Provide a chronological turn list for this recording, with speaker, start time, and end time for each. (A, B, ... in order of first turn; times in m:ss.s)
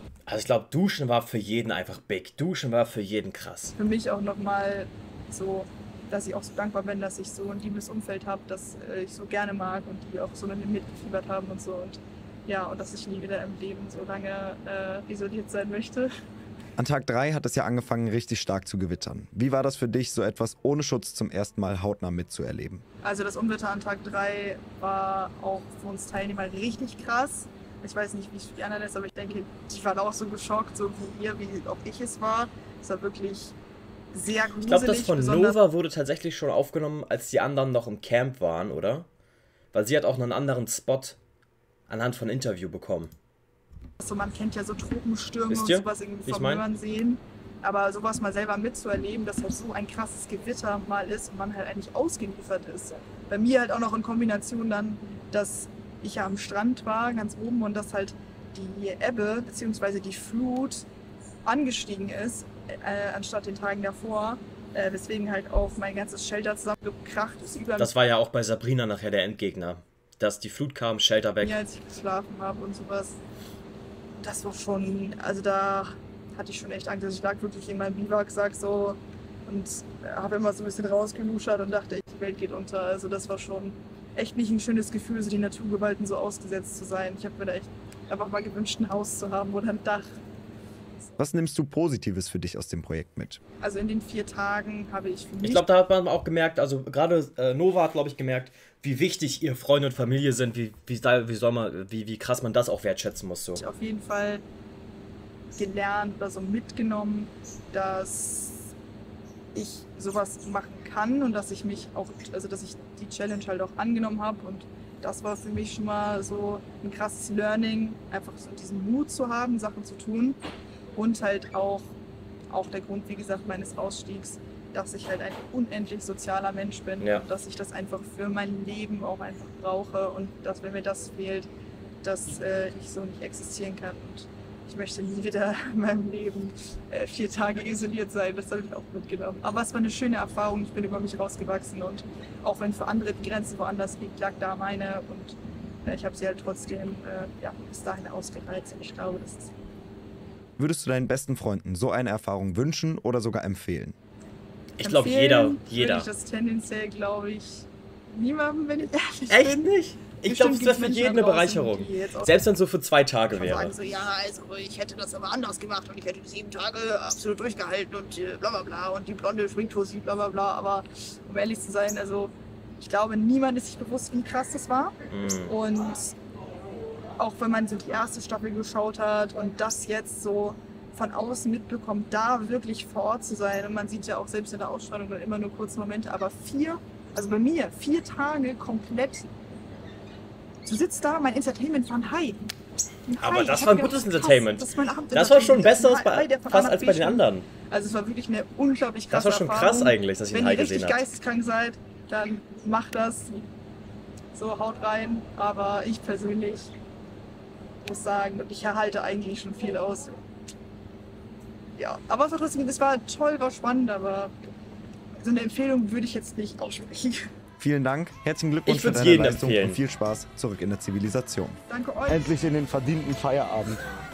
0:00.3-0:03.7 A
0:03.8-0:16.1 B
0:16.8-0:22.8 C
0:23.0-0:33.5 B
0:34.1-0:35.6 B
0:34.6-0:39.1 A
0:39.7-0:41.2 A
0:41.9-0:43.1 A
0:44.0-1:00.8 B
0:45.5-0:46.6 A
1:01.4-1:07.9 B
1:07.8-1:11.6 A
1:11.4-1:13.2 B
1:14.2-1:30.1 B
1:31.2-1:33.4 C
1:33.6-1:35.6 B
1:35.4-1:43.6 A
1:43.6-1:44.4 B
1:45.6-1:48.7 B
1:49.5-2:00.4 B
2:01.0-2:01.9 B
2:02.5-2:11.5 B
2:07.0-2:07.2 A
2:12.0-2:29.5 B
2:30.6-2:33.9 C
2:34.8-2:36.1 A
2:34.8-2:42.4 B
2:39.3-2:43.7 A
2:43.3-2:56.1 B
2:55.1-2:55.5 A
2:57.2-3:09.3 B
3:10.6-3:12.5 B
3:13.1-3:23.5 B
3:13.2-3:17.5 A
3:19.1-3:21.0 A
3:24.3-3:26.7 B
3:27.8-3:30.1 B
3:31.8-3:34.3 B
3:35.2-3:37.3 B
3:37.6-3:43.8 C
3:38.6-3:39.8 A
3:41.7-3:42.3 B